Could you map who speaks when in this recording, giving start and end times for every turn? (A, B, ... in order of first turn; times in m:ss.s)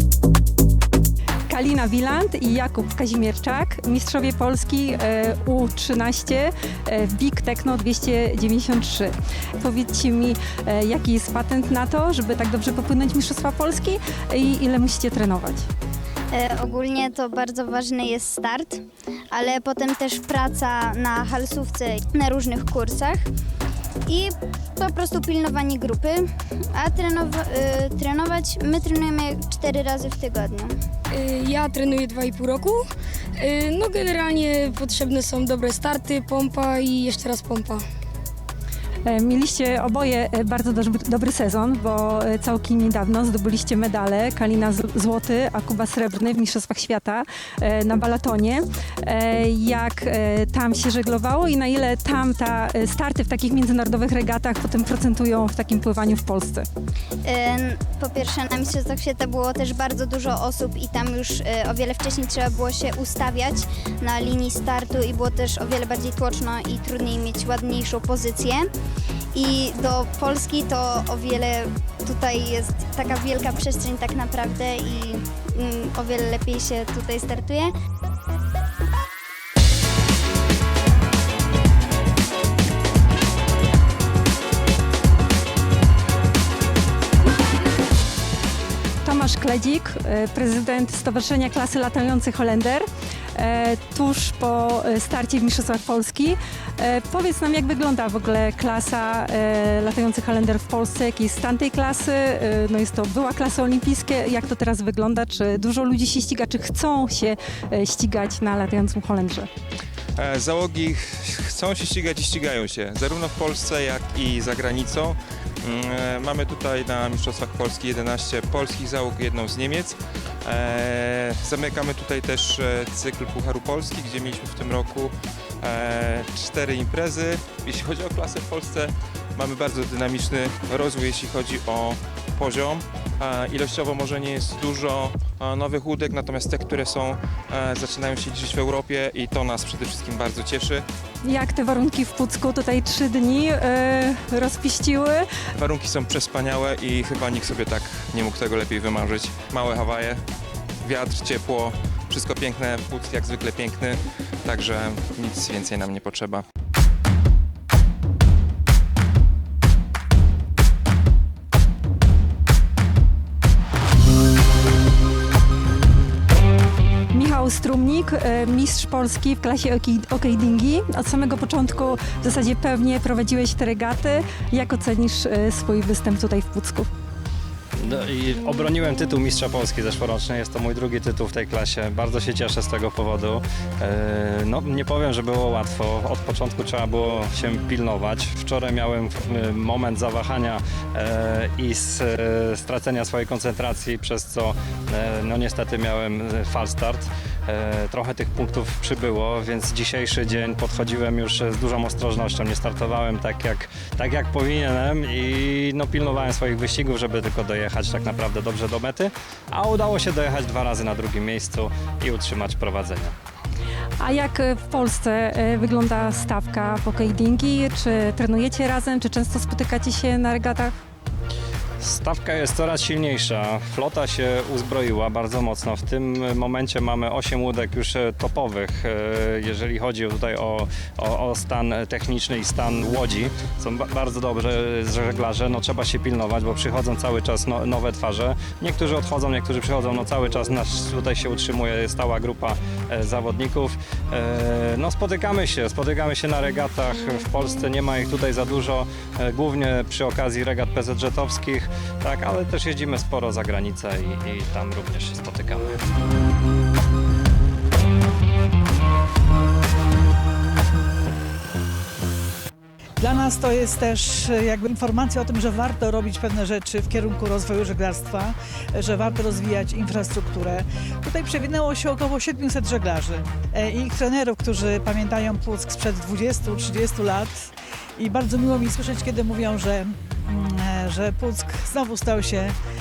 0:01.5-0:15.7 A
0:16.3-0:23.2 B
0:24.1-0:30.7 B
0:31.2-0:32.7 C
0:33.4-0:37.8 C
0:39.0-0:56.7 A
0:57.2-1:08.7 B
1:09.3-1:17.7 B
1:29.0-1:49.5 A
1:50.2-2:20.8 D
2:21.2-2:25.3 A
2:25.5-2:30.2 D
2:30.8-2:36.4 D
2:47.1-2:56.9 A
2:57.8-3:33.1 E
3:34.0-3:40.7 A
3:41.8-4:15.7 E
4:23.0-4:42.6 F